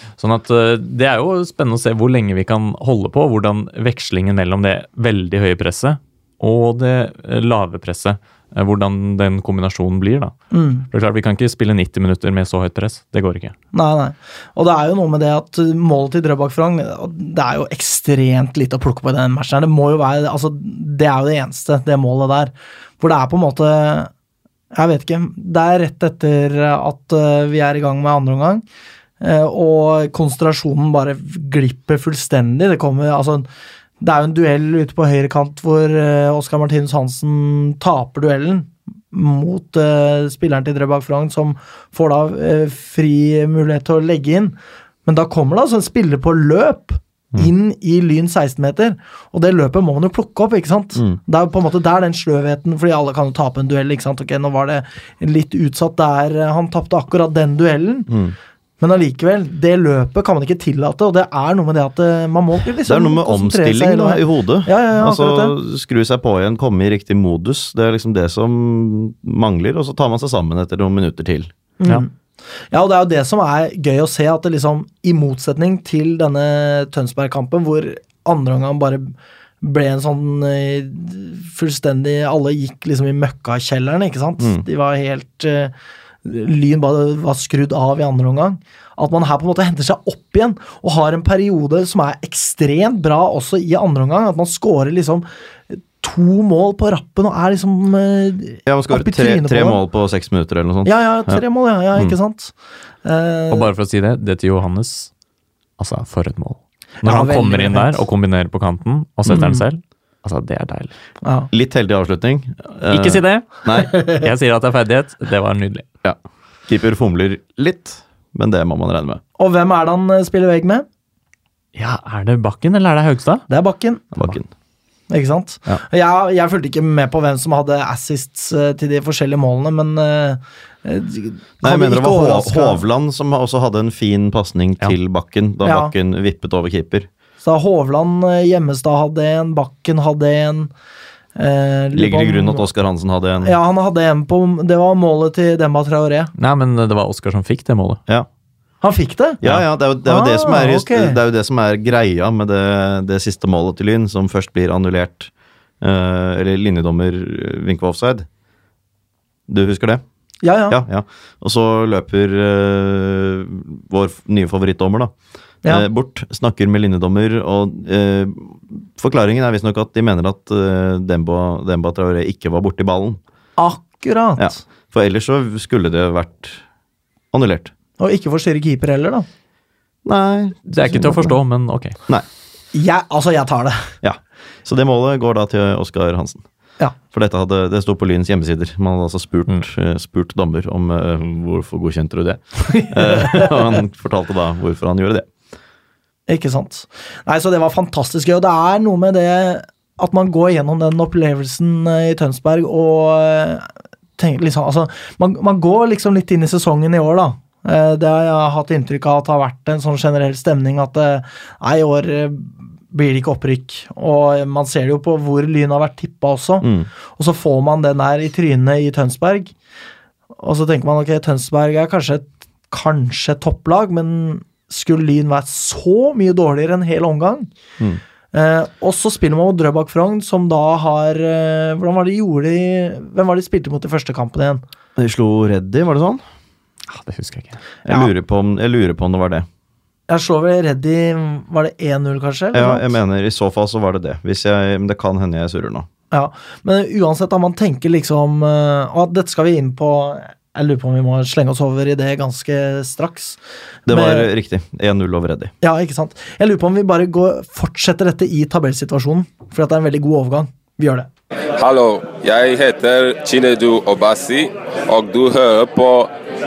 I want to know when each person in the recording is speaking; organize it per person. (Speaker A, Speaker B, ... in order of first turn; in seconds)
Speaker A: 0.2-10.3, 10.9-13.6, 103.5-105.1, 105.8-110.9, 112.9-115.9, 121.8-123.5, 146.4-148.0, 180.7-182.0, 236.9-237.6
Speaker B: 10.5-10.9, 13.7-24.1, 24.7-28.6, 29.2-33.5, 34.0-58.1, 58.8-65.6, 71.8-72.1, 72.7-85.7, 86.2-99.8, 100.8-102.5, 103.0-103.7, 107.0-108.0, 109.3-109.7, 111.2-111.5, 119.4-120.8, 123.5-124.0, 125.1-132.8, 135.7-135.9, 137.4-140.7, 141.4-142.7, 143.4-146.3, 148.8-149.4, 150.1-151.2, 160.4-160.8, 173.6-174.6, 178.0-179.3, 182.7-183.9, 196.3-219.5, 220.4-227.5, 228.3-234.6, 240.1-243.0, 246.1-253.4, 253.9-254.3, 255.6-261.1
Speaker C: 58.1-58.4, 62.8-71.5, 84.4-84.7, 98.7-101.4, 111.5-113.9, 116.0-119.2, 124.1-124.5, 131.6-137.1, 141.9-143.6, 149.4-158.3, 159.5-160.0, 160.7-165.1, 165.7-173.2, 174.4-176.6, 177.3-177.7, 180.1-181.3, 184.0-186.4, 187.1-195.3, 216.6-216.9, 235.0-236.2, 237.8-239.5, 242.5-245.9, 253.9-255.5
Speaker D: 261.6-266.1